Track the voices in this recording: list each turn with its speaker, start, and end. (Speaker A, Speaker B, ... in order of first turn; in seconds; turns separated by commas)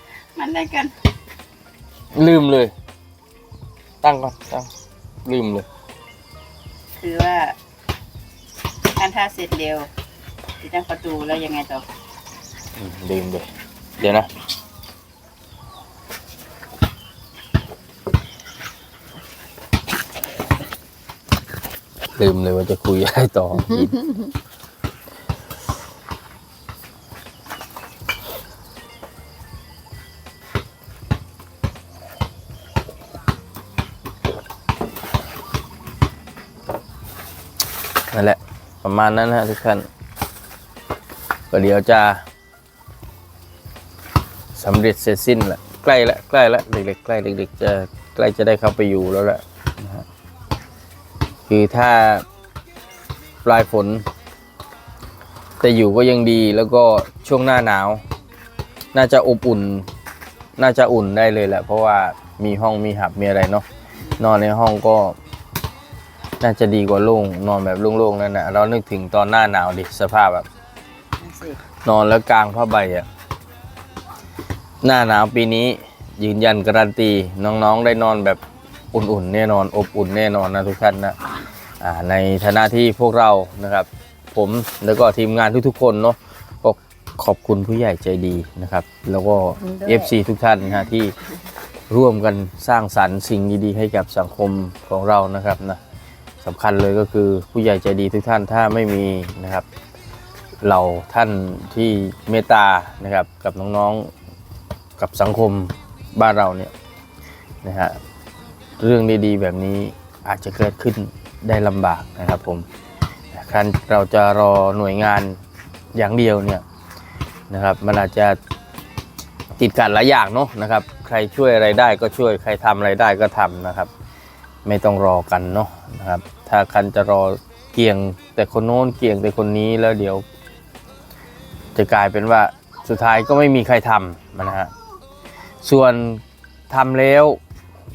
Speaker A: 0.3-0.9, Speaker B: 2.1-2.7, Speaker B: 4.0-4.7, Speaker B: 5.2-5.7, Speaker A: 7.0-7.5, Speaker A: 8.9-9.9, Speaker A: 10.6-11.8, Speaker B: 12.8-13.4, Speaker B: 14.0-14.3, Speaker B: 22.1-24.1, Speaker B: 38.1-39.9, Speaker B: 41.5-42.2, Speaker B: 44.5-50.0, Speaker B: 51.5-52.2, Speaker B: 53.4-54.0, Speaker B: 55.6-58.0, Speaker B: 58.9-59.9, Speaker B: 60.6-63.6, Speaker B: 64.2-65.2, Speaker B: 66.4-70.5, Speaker A: 71.2-71.6, Speaker B: 71.8-73.1, Speaker B: 74.8-78.4, Speaker B: 78.9-81.2, Speaker B: 81.8-91.1, Speaker A: 89.6-90.1, Speaker B: 91.9-95.8, Speaker B: 96.4-99.7, Speaker B: 100.6-104.1, Speaker B: 105.0-106.7, Speaker B: 107.6-108.0, Speaker B: 108.8-112.7, Speaker B: 113.3-115.4, Speaker B: 115.9-116.6, Speaker B: 117.5-118.4, Speaker B: 119.6-123.9, Speaker B: 124.6-130.2, Speaker B: 131.7-134.7, Speaker B: 135.6-137.4